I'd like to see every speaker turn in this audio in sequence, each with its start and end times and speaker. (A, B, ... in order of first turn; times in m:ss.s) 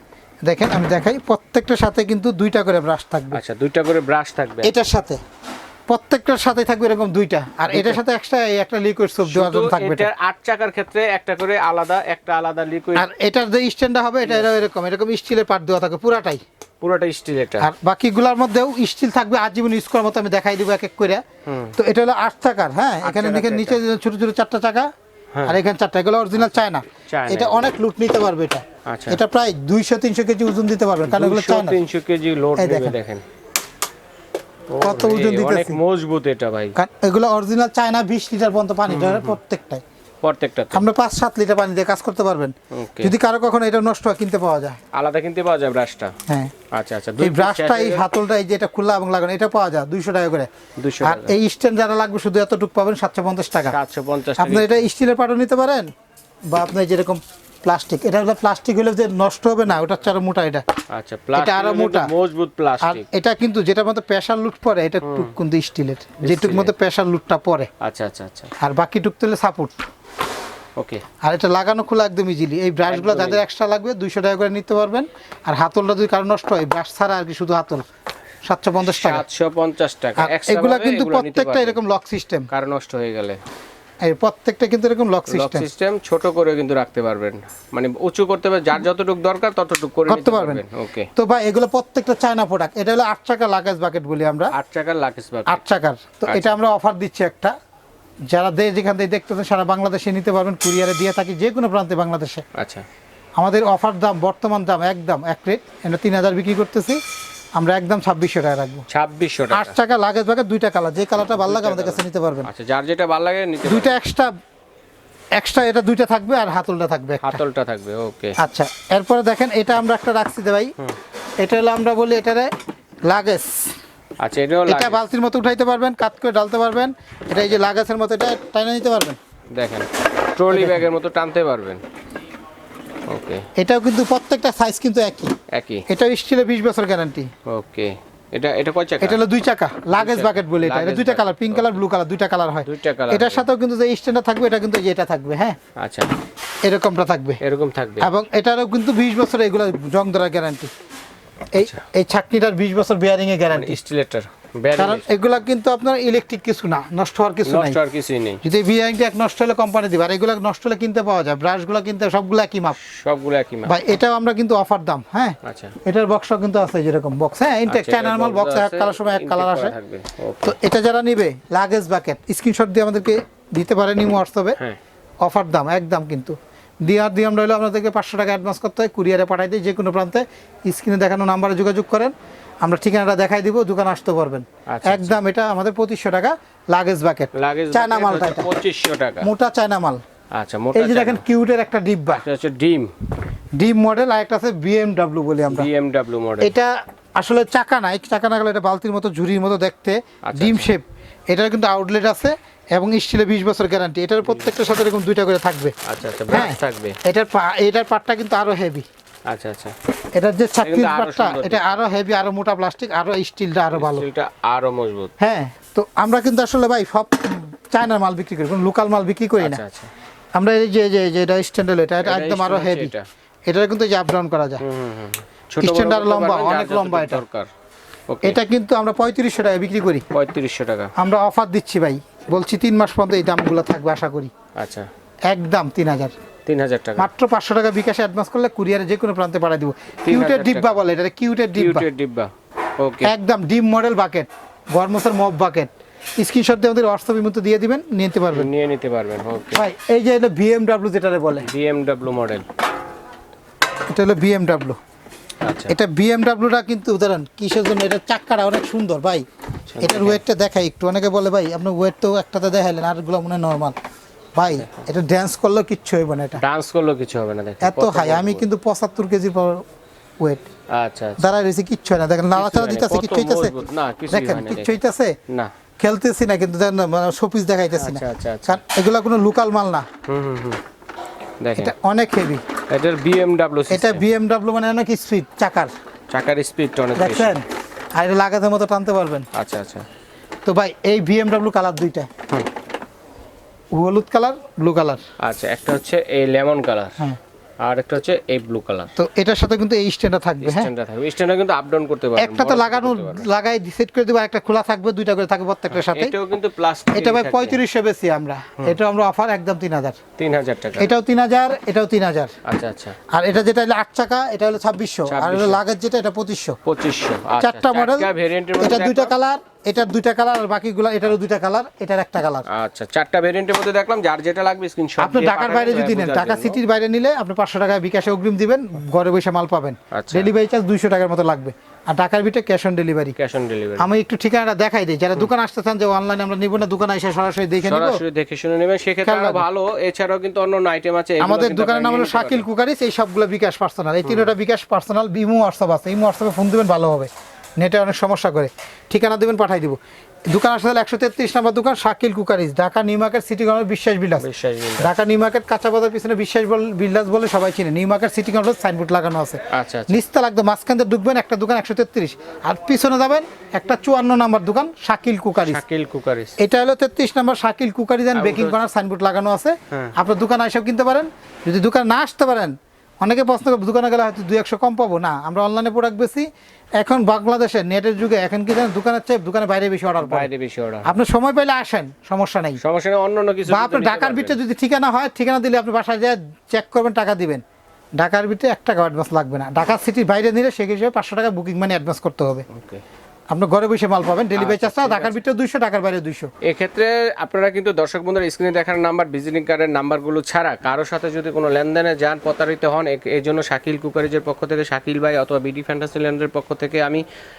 0:00.4-0:03.4 A
0:03.3-0:04.7 B
0:04.6-0:05.2 A
0:05.9-0:10.1 A
0:07.7-0:08.0 B
0:09.2-0:13.1 B
0:12.9-0:16.4 A
0:14.2-0:14.6 B
0:16.8-0:17.7 B
0:17.6-0:21.2 A
0:21.4-0:21.7 B
0:21.8-0:24.9 A
0:23.0-0:23.8 B
0:25.4-0:31.8 A
0:26.4-0:27.7 B
0:28.8-0:29.2 B
0:31.1-0:33.2 B
0:32.6-0:32.9 A
0:34.7-0:36.8 B
0:34.8-0:35.8 A
0:36.8-0:39.8 A
0:38.9-0:39.4 B
0:40.2-0:40.8 B
0:40.7-0:44.8 A
0:42.7-0:43.1 B
0:44.9-0:46.1 B
0:46.3-0:46.5 A
0:46.7-0:48.0 B
0:47.2-0:50.5 A
0:50.8-0:51.3 B
0:51.0-0:53.8 A
0:53.7-0:54.9 B
0:54.4-0:55.9 A
0:56.5-1:00.6 A
1:00.9-1:03.0 B
1:01.4-1:02.1 A
1:02.8-1:07.7 A
1:05.0-1:05.3 B
1:06.2-1:06.7 B
1:07.8-1:08.5 B
1:08.6-1:09.8 A
1:10.8-1:11.0 B
1:11.2-1:17.8 A
1:12.9-1:13.4 B
1:18.4-1:19.2 A
1:18.8-1:21.8 B
1:20.2-1:22.5 A
1:22.5-1:23.4 B
1:24.0-1:25.7 A
1:25.3-1:31.1 B
1:30.1-1:30.6 A
1:31.2-1:34.5 A
1:34.5-1:35.6 B
1:35.5-1:37.5 A
1:36.3-1:36.5 B
1:38.3-1:42.4 A
1:42.5-1:42.8 B
1:43.4-1:47.0 A
1:47.6-1:48.8 A
1:48.9-1:49.7 B
1:49.5-1:52.5 A
1:51.3-1:54.0 B
1:53.6-1:54.3 A
1:55.4-1:57.4 A
1:57.2-1:58.4 B
1:58.4-2:00.7 A
2:01.4-2:02.5 A
2:03.1-2:03.7 A
2:04.2-2:05.0 B
2:04.7-2:09.2 A
2:07.3-2:07.6 B
2:09.5-2:11.8 B
2:10.5-2:10.9 A
2:13.1-2:13.4 B
2:13.6-2:15.3 A
2:15.5-2:15.8 B
2:15.9-2:17.3 A
2:17.5-2:19.2 B
2:19.0-2:25.6 A
2:19.9-2:21.8 B
2:22.6-2:23.4 B
2:25.8-2:26.1 B
2:26.6-2:27.4 A
2:27.4-2:28.1 B
2:28.0-2:30.7 A
2:31.5-2:33.8 A
2:33.5-2:35.0 B
2:34.8-2:37.8 A
2:37.4-2:38.4 B
2:38.4-2:42.8 A
2:42.8-2:43.7 B
2:43.6-2:49.7 A
2:45.4-2:45.7 B
2:47.7-2:50.5 B
2:50.4-2:54.6 A
2:55.2-3:08.5 A
3:04.7-3:05.1 B
3:07.3-3:09.3 B
3:09.2-3:10.0 A
3:10.3-3:11.2 B
3:10.7-3:12.2 A
3:12.1-3:12.9 B
3:13.6-3:15.7 A
3:15.5-3:16.5 B
3:16.4-3:25.7 A
3:20.2-3:20.7 B
3:25.8-3:27.0 B
3:26.3-3:28.8 A
3:29.3-3:29.7 B
3:30.1-3:34.0 A
3:30.6-3:31.8 B
3:33.7-3:35.1 B
3:35.2-3:39.6 A
3:39.4-3:39.9 B
3:40.3-3:42.9 A
3:42.0-3:43.0 B
3:43.5-3:44.6 A
3:44.6-3:47.5 B
3:45.6-3:47.2 A
3:48.1-3:48.4 B
3:48.2-3:50.0 A
3:50.1-3:50.9 B
3:51.0-3:54.3 A
3:54.6-3:54.9 B
3:55.3-3:56.1 A
3:56.4-3:57.1 B
3:57.0-4:01.9 A
4:00.0-4:00.8 B
4:01.5-4:03.1 B
4:03.0-4:08.5 A
4:08.3-4:09.6 B
4:09.5-4:11.5 A
4:11.4-4:12.4 B
4:13.9-4:14.8 A
4:15.4-4:15.8 B
4:15.7-4:19.2 A
4:19.7-4:20.2 B
4:19.8-4:23.8 A
4:24.4-4:26.4 A
4:24.5-4:24.9 B
4:26.4-4:28.4 B
4:27.6-4:29.6 A
4:30.2-4:30.4 A
4:30.7-4:31.2 B
4:31.2-4:33.5 A
4:32.3-4:34.8 B
4:34.1-4:35.2 A
4:35.8-4:39.8 A
4:37.7-4:38.6 B
4:40.0-4:40.6 B
4:41.4-4:41.7 B
4:41.6-4:42.4 A
4:42.7-4:44.0 B
4:43.7-4:45.7 A
4:46.1-4:47.4 B
4:47.0-4:47.4 A
4:48.0-4:49.2 A
4:49.3-4:49.8 B
4:50.4-4:52.1 A
4:53.7-4:55.0 A
4:55.2-4:57.0 B
4:57.6-4:58.9 B
4:59.0-5:00.7 A
5:00.4-5:03.3 B
5:02.2-5:06.2 A
5:05.7-5:07.6 B
5:06.9-5:10.0 A
5:10.2-5:10.9 B
5:10.8-5:12.3 A
5:12.4-5:13.0 B
5:13.1-5:16.6 A
5:15.1-5:15.6 B
5:16.6-5:19.1 B
5:17.4-5:22.5 A
5:22.5-5:26.6 B
5:25.0-5:33.2 A
5:29.9-5:30.3 B
5:33.2-5:33.9 B
5:33.8-5:38.0 A
5:37.6-5:42.4 B
5:39.0-5:39.4 A
5:41.2-5:49.8 A
5:44.0-5:44.3 B
5:50.3-5:54.2 A
5:54.2-5:54.9 B
5:54.8-6:05.6 A
5:59.5-6:00.0 B
6:05.4-6:06.4 B
6:06.4-6:16.2 A
6:08.1-6:08.6 B
6:16.8-6:20.3 A
6:20.0-6:20.9 B
6:20.8-6:22.6 A
6:22.6-6:24.4 B
6:23.4-6:27.4 A
6:28.0-6:32.5 A
6:32.5-6:32.8 B
6:33.3-6:36.3 A
6:34.4-6:35.2 B
6:36.4-6:47.0 B